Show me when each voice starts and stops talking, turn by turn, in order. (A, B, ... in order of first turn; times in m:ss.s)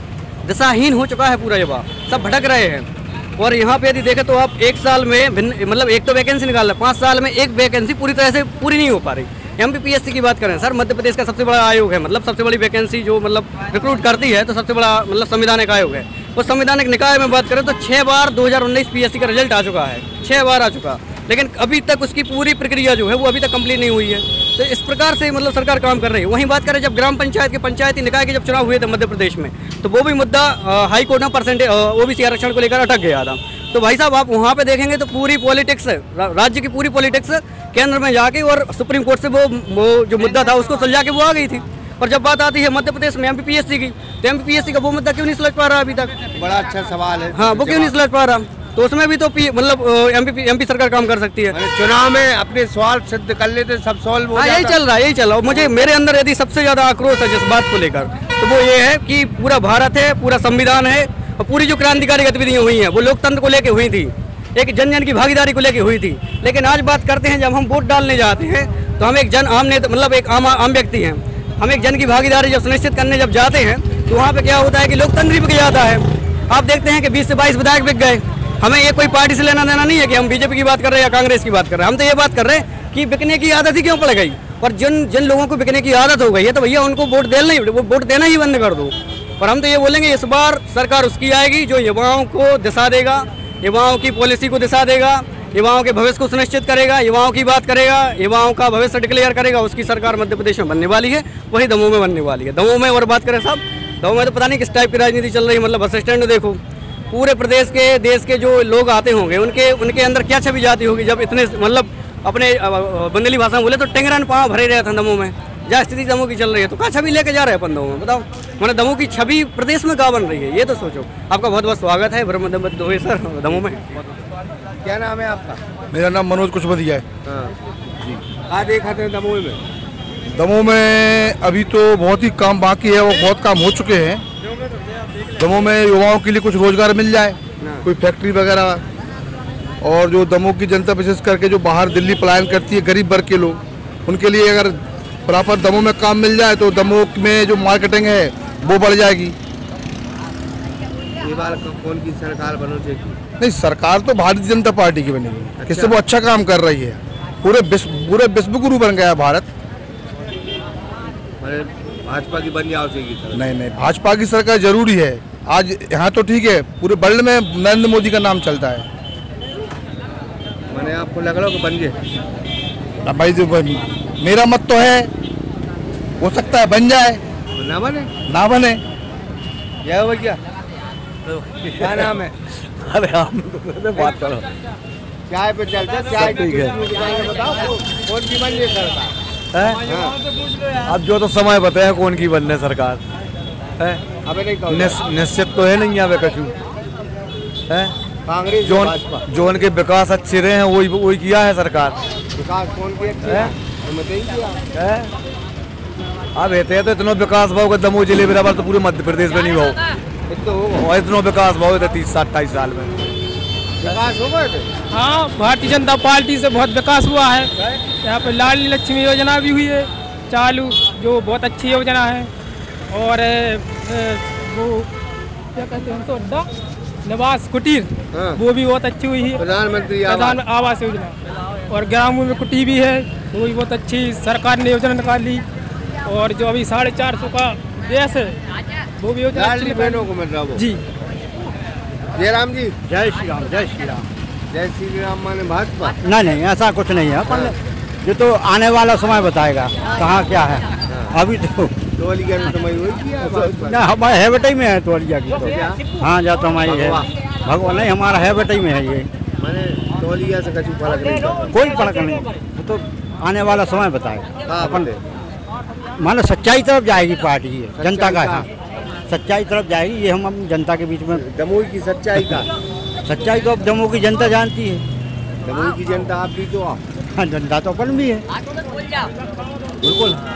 0:00.4-0:02.9 A
0:03.4-0:46.2 A
0:46.4-0:48.0 B
0:47.3-0:51.6 A
0:51.5-0:54.8 B
0:54.3-1:46.6 A
0:55.5-0:55.8 B
1:47.1-2:03.8 A
2:04.8-2:05.6 B
2:05.9-2:07.1 C
2:07.2-2:07.5 B
2:08.5-2:09.6 B
2:10.3-2:14.2 C
2:15.4-2:18.8 C
2:17.6-2:17.9 B
2:19.8-2:29.4 C
2:31.2-2:33.2 B
2:33.4-2:39.5 C
2:35.6-2:35.9 B
2:41.4-2:43.5 B
2:43.3-2:48.9 C
2:50.7-2:52.0 B
2:53.0-2:55.1 C
2:56.2-2:57.2 C
2:57.6-2:58.1 B
2:58.3-2:58.8 C
2:59.8-3:00.4 B
3:01.6-3:02.1 D
3:01.8-3:02.3 B
3:02.8-3:04.5 D
3:05.3-3:09.2 B
3:06.1-3:06.8 D
3:09.5-3:09.8 D
3:09.8-3:10.2 B
3:10.8-3:13.0 D
3:13.8-3:14.1 D
3:14.2-3:15.0 B
3:14.7-3:16.6 D
3:17.7-3:17.9 D
3:18.3-3:19.2 B
3:18.6-3:22.0 D
3:22.4-3:24.6 B
3:23.2-3:23.5 D
3:24.7-3:25.1 D
3:26.4-3:29.8 D
3:30.3-3:30.8 B
3:30.4-3:33.2 D
3:33.8-3:34.7 B
3:34.9-3:37.5 E
3:38.0-3:42.3 E
3:42.9-3:44.9 E
3:45.6-3:46.5 E
3:47.1-3:49.4 E
3:48.1-3:48.4 B
3:49.4-3:50.4 B
3:50.0-3:51.2 E
3:51.7-3:55.4 E
3:56.0-3:58.3 E
3:59.0-4:00.8 E
3:59.3-4:00.6 B
4:02.2-4:02.7 B
4:02.9-4:04.1 F
4:04.5-4:06.0 B
4:06.0-4:11.7 F
4:07.3-4:07.5 B
4:10.9-4:11.2 B
4:12.0-4:13.8 B
4:13.2-4:19.1 F
4:15.3-4:15.8 B
4:16.6-4:17.1 B
4:19.4-4:21.6 B
4:21.5-4:24.9 F
4:24.5-4:25.0 B
4:26.0-4:28.5 F
4:27.8-4:28.5 B
4:29.1-4:31.2 F
4:31.1-4:32.5 B
4:33.0-4:34.9 F
4:35.4-4:36.8 B
4:37.2-4:38.2 F
4:39.8-4:40.2 F